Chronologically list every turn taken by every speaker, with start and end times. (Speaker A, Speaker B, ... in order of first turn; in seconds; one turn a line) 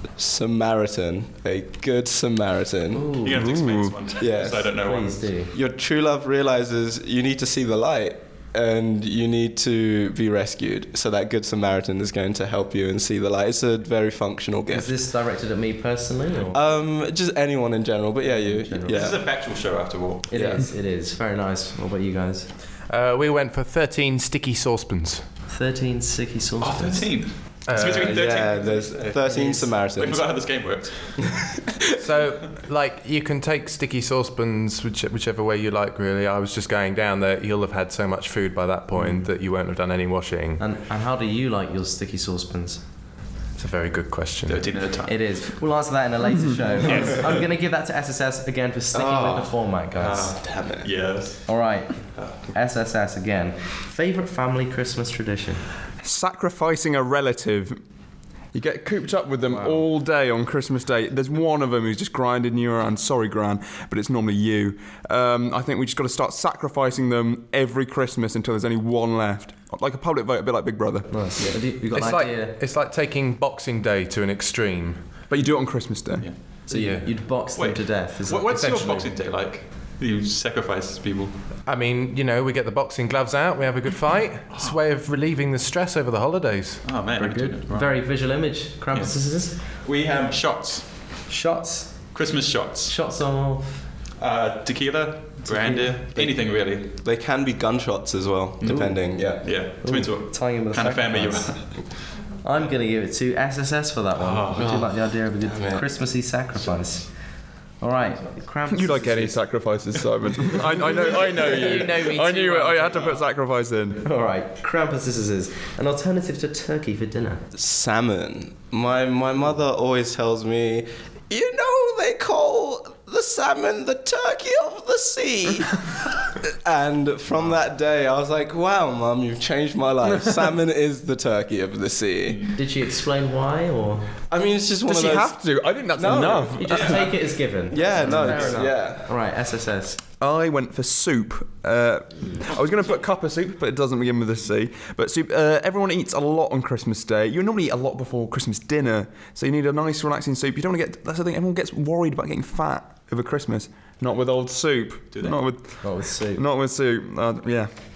Speaker A: 0.2-3.1
Speaker B: 2.9-3.5
Speaker C: 3.2-5.4
Speaker D: 3.3-4.0
Speaker A: 4.2-4.8
Speaker B: 4.4-5.5
Speaker A: 5.5-14.9
Speaker B: 14.7-16.6
Speaker A: 16.5-19.2
Speaker B: 18.2-19.1
Speaker C: 18.8-20.6
Speaker B: 20.3-22.5
Speaker A: 20.3-20.7
Speaker E: 22.9-25.2
Speaker B: 25.5-27.2
Speaker C: 26.6-31.4
Speaker E: 27.7-28.2
Speaker A: 27.7-30.6
Speaker E: 32.0-40.6
Speaker B: 40.6-42.8
Speaker E: 43.6-44.7
Speaker C: 44.5-45.5
Speaker B: 45.0-50.4
Speaker A: 46.8-47.3
Speaker A: 48.9-49.6
Speaker C: 49.9-52.5
Speaker A: 50.3-50.9
Speaker B: 51.5-55.6
Speaker D: 56.0-57.8
Speaker D: 58.5-71.3
Speaker B: 71.1-72.6
Speaker E: 71.9-75.0
Speaker D: 75.3-76.3
Speaker B: 76.7-79.1
Speaker E: 76.7-77.1
Speaker C: 77.5-81.3
Speaker E: 78.5-78.9
Speaker E: 81.7-86.8
Speaker C: 86.8-88.2
Speaker B: 87.2-89.6
Speaker C: 88.9-91.1
Speaker B: 91.3-92.2
Speaker C: 92.1-92.9
Speaker B: 92.8-93.8
Speaker C: 94.2-96.9
Speaker B: 95.5-96.0
Speaker A: 96.1-99.6
Speaker C: 98.6-102.2
Speaker B: 98.6-101.8
Speaker B: 102.4-107.1
Speaker C: 104.2-104.9
Speaker A: 104.5-105.8
Speaker B: 107.8-109.4
Speaker D: 108.7-114.0
Speaker B: 111.2-112.9
Speaker B: 114.0-117.4
Speaker A: 117.5-125.7
Speaker A: 126.6-132.5
Speaker B: 132.5-134.1
Speaker A: 134.3-137.0
Speaker D: 134.8-137.0
Speaker B: 136.5-140.0
Speaker C: 136.6-137.1
Speaker A: 137.7-139.1
Speaker D: 137.8-138.8
Speaker D: 140.2-157.7
Speaker C: 155.1-155.4
Speaker B: 155.8-156.4